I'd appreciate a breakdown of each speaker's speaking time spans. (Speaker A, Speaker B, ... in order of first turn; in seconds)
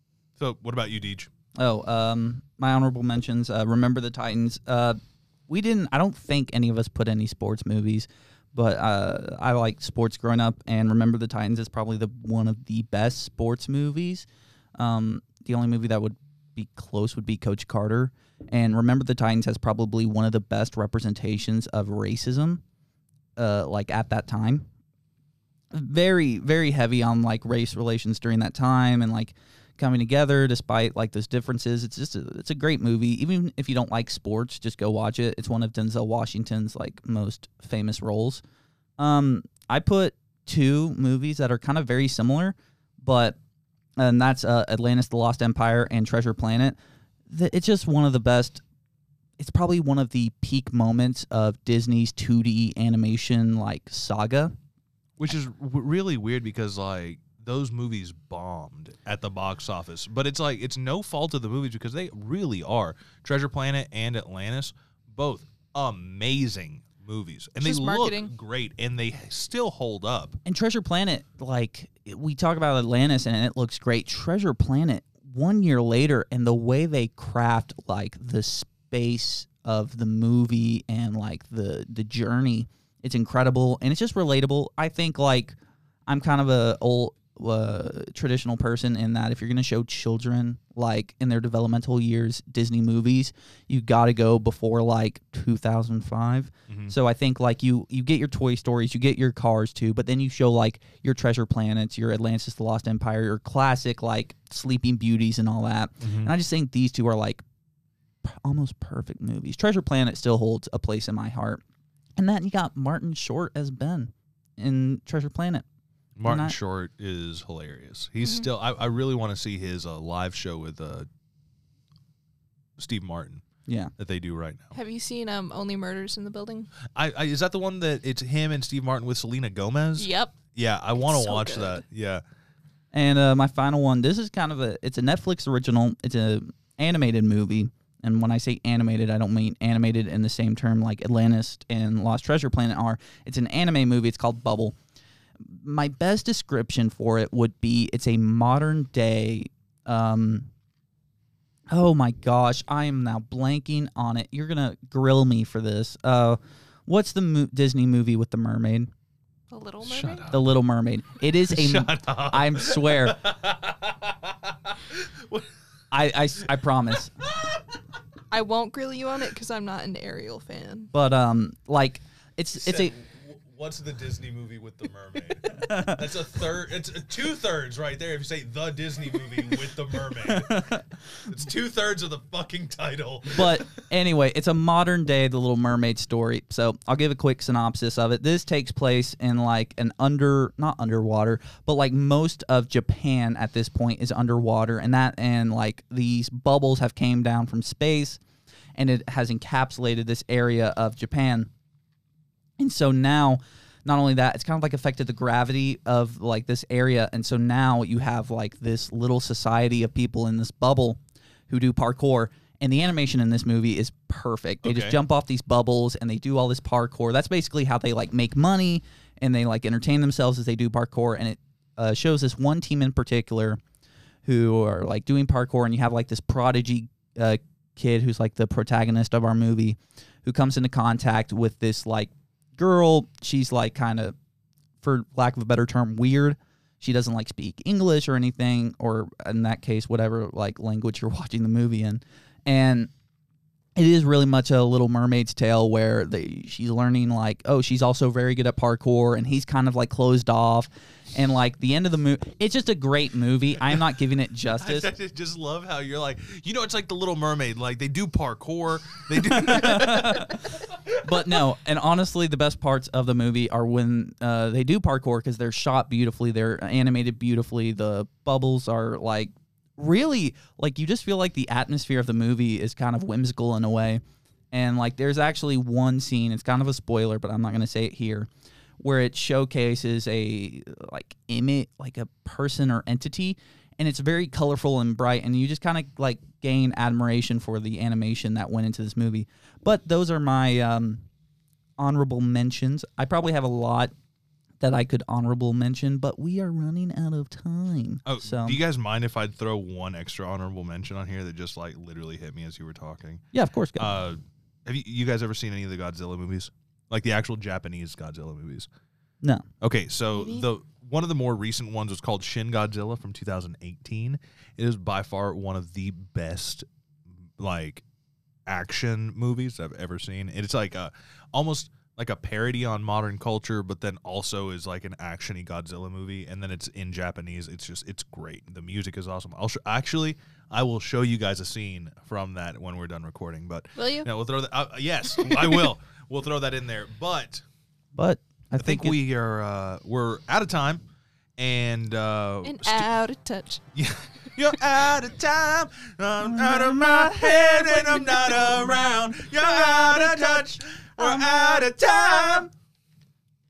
Speaker A: 0.4-1.3, 55.2-70.4, 106.0-106.3, 116.2-121.1, 122.8-123.4, 124.0-124.7, 127.0-132.2, 159.8-160.4, 161.5-165.5, 167.3-167.6, 172.5-183.6, 214.6-215.0, 254.6-261.4, 298.1-303.2, 303.8-308.7, 309.6-316.7, 317.4-317.8, 318.5-337.4, 338.6-340.8, 341.4-342.9, 343.7-352.5
Speaker B: 1.6-22.6, 23.4-24.7, 25.7-38.4, 39.0-43.4, 44.0-48.6, 49.4-54.5, 70.5-85.6, 86.1-107.4, 108.2-111.6, 112.2-115.7, 116.2-116.5, 123.7-123.9, 132.9-144.8, 145.4-150.5, 151.7-158.9, 160.3-163.2, 165.9-167.1, 170.9-172.9, 175.5-176.1, 180.2-180.8, 183.3-198.2, 198.8-201.5, 202.6-223.6, 224.2-234.2, 234.8-242.9, 243.8-254.9, 259.1-274.0, 274.5-278.3, 278.8-291.1, 291.8-293.9, 294.6-298.6, 303.3-304.0, 337.9-338.9, 346.2-348.5, 349.7-350.3, 351.0-351.6, 352.1-352.5
Speaker C: 67.6-68.3, 118.2-118.5, 124.7-126.7, 130.0-130.4, 131.1-131.8, 159.5-160.3, 168.3-170.9, 310.1-310.5, 333.8-334.1, 342.4-343.6